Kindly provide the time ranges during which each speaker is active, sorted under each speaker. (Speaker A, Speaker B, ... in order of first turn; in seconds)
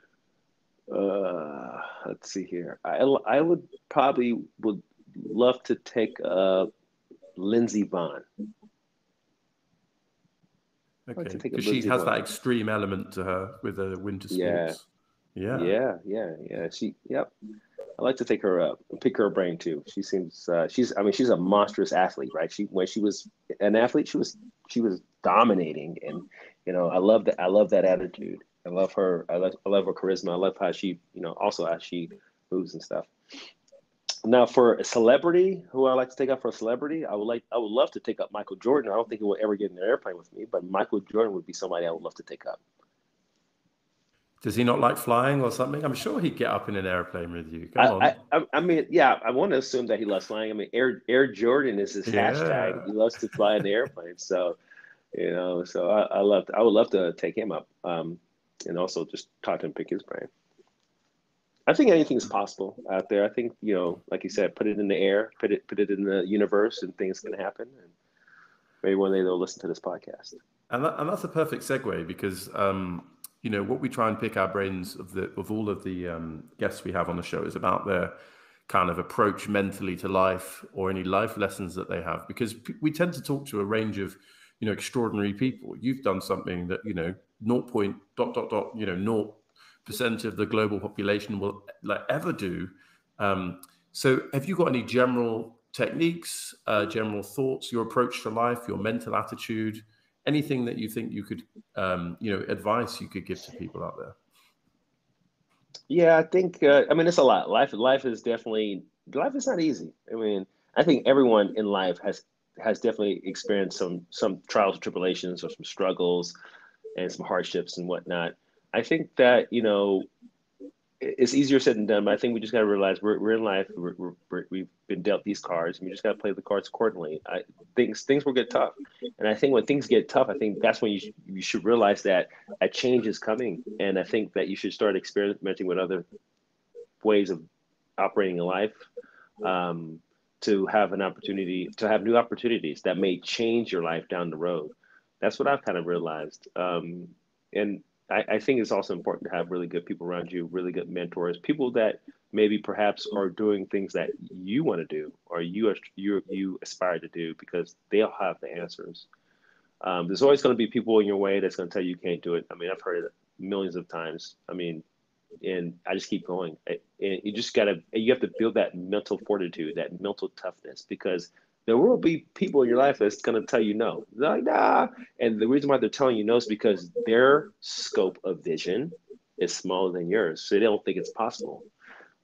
Speaker A: 0.9-6.7, 7.4-8.2, 11.2-12.1, 14.3-14.8, 15.5-17.3, 18.0-33.1, 34.2-42.6, 47.8-54.6, 55.1-60.3, 61.7-67.9, 68.8-70.4, 105.9-116.3, 117.0-120.1, 121.0-136.1, 137.0-137.4, 138.0-138.9, 139.4-159.1, 159.8-164.8, 165.4-181.7
Speaker B: 11.1-15.7, 44.4-48.1, 52.0-53.4, 70.7-78.1, 78.7-104.2